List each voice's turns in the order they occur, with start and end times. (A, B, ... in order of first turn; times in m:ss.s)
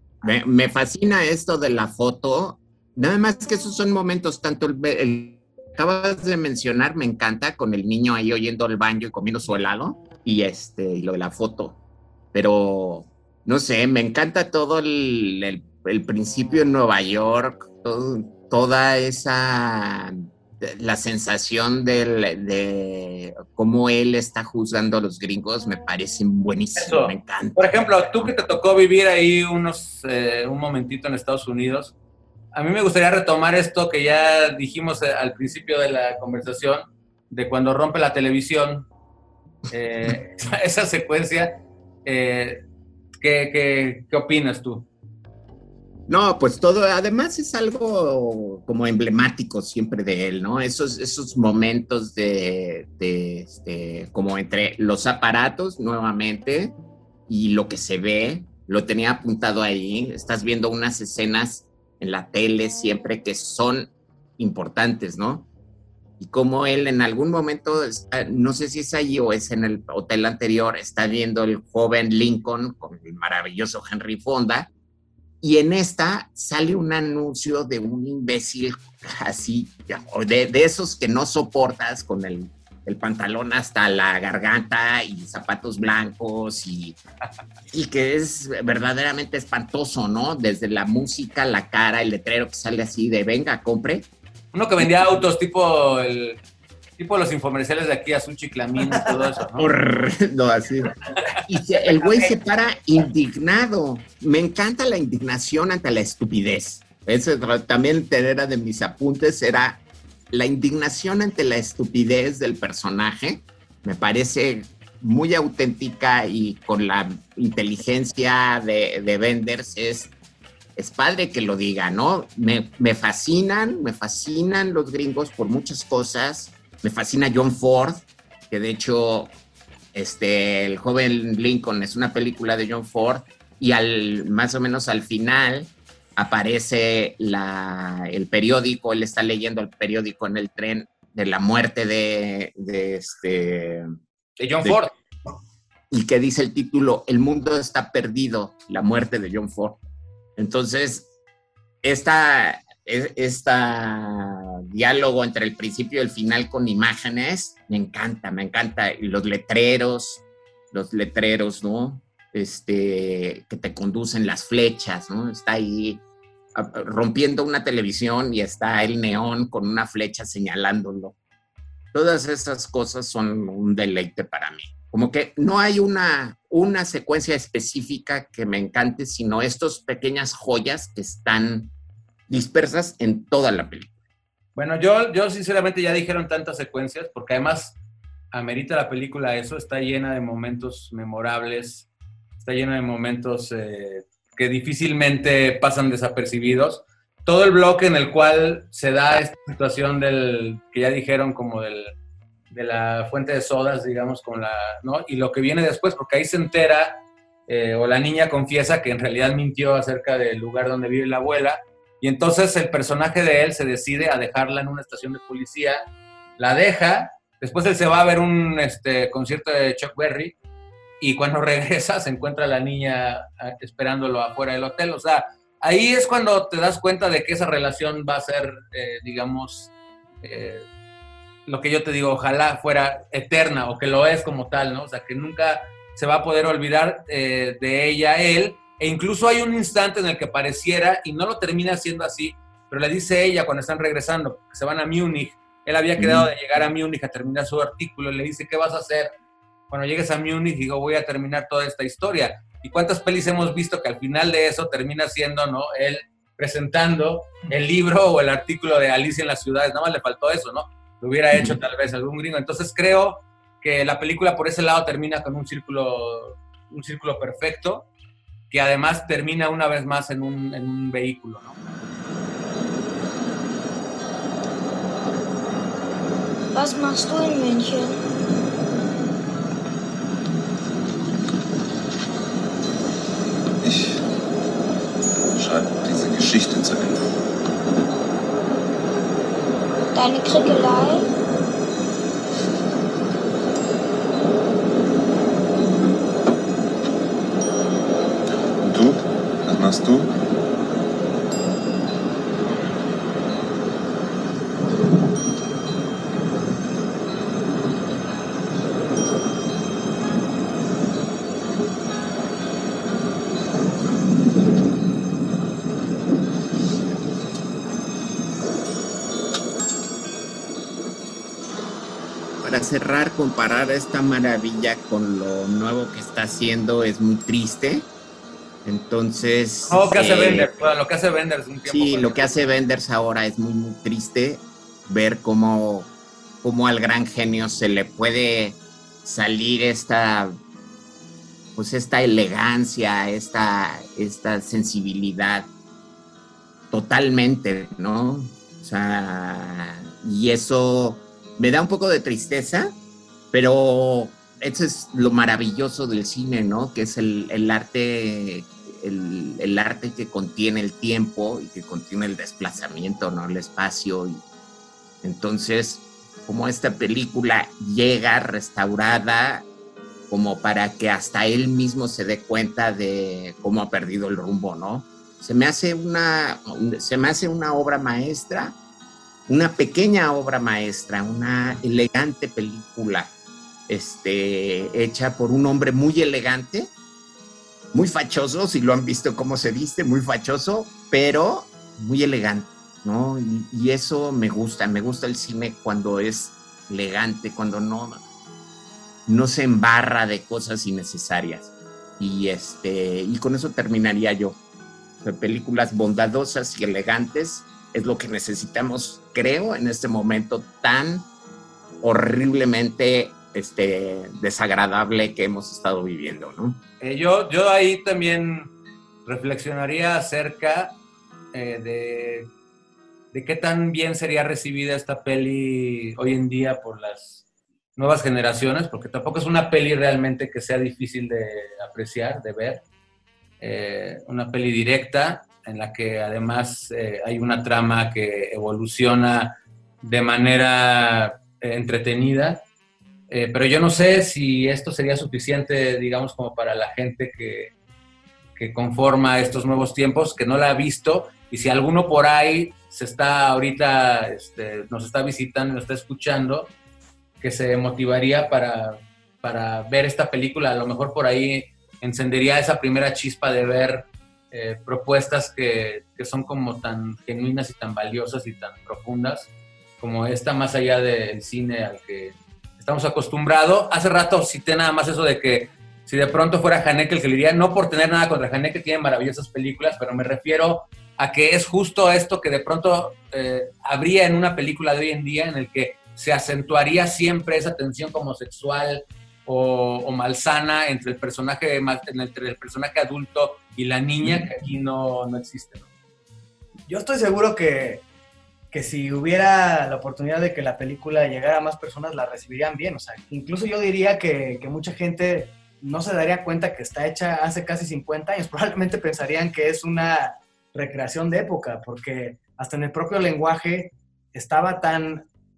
0:00.2-0:11.8 A
0:12.3-0:28.3 A
0:26.8-0:31.9 B
0:32.5-0:38.9 B
0:39.7-0:42.6 B
0:43.2-0:44.9 B
0:46.1-0:56.8 A
0:57.3-1:05.5 A
1:06.2-1:14.7 A
1:15.4-1:27.0 A
1:27.7-1:34.1 A
1:34.5-1:36.4 B
1:37.0-1:39.7 B
1:39.5-2:00.1 A
2:00.8-2:09.3 A
2:09.9-2:23.9 A
2:24.4-2:24.9 B
2:25.9-2:29.8 A
2:30.4-2:31.1 A
2:31.8-2:46.0 A
2:46.5-2:51.2 A
2:51.9-3:01.7 A
3:02.3-3:03.9 A
3:04.5-3:07.8 B
3:08.3-3:11.9 B
3:12.4-3:21.9 B
3:22.5-3:35.8 B
3:36.4-3:40.3 B
3:41.0-3:49.7 B
3:50.2-3:50.6 B
3:51.4-4:09.1 B
4:06.0-4:06.3 A
4:09.7-4:27.9 B
4:21.3-4:21.6 A
4:28.5-4:31.6 B
4:36.5-4:38.0 C
4:43.6-4:44.0 D
4:45.3-4:47.0 D
4:49.9-4:51.1 C
4:58.6-5:00.1 D
5:22.4-5:27.9 A
5:28.6-5:30.5 A
5:29.7-5:32.5 B
5:31.6-5:35.9 A
5:36.4-5:40.4 A
5:41.6-5:45.5 A
5:46.7-5:52.8 A
5:53.3-6:04.2 A
6:05.0-6:09.5 A
6:10.1-6:18.6 A
6:19.3-6:23.1 A
6:23.7-6:26.7 A
6:27.7-6:38.0 A
6:39.1-6:44.4 A
6:45.0-6:51.1 A
6:51.8-6:56.6 A
6:56.8-6:58.5 B
6:59.0-7:00.8 B
7:01.3-7:02.3 B
7:03.1-7:07.2 B
7:07.8-7:12.6 B
7:13.4-7:22.4 B
7:23.1-7:27.5 B
7:28.4-7:36.5 B
7:37.2-8:15.7 B
8:16.7-8:17.8 E
8:18.5-8:35.1 E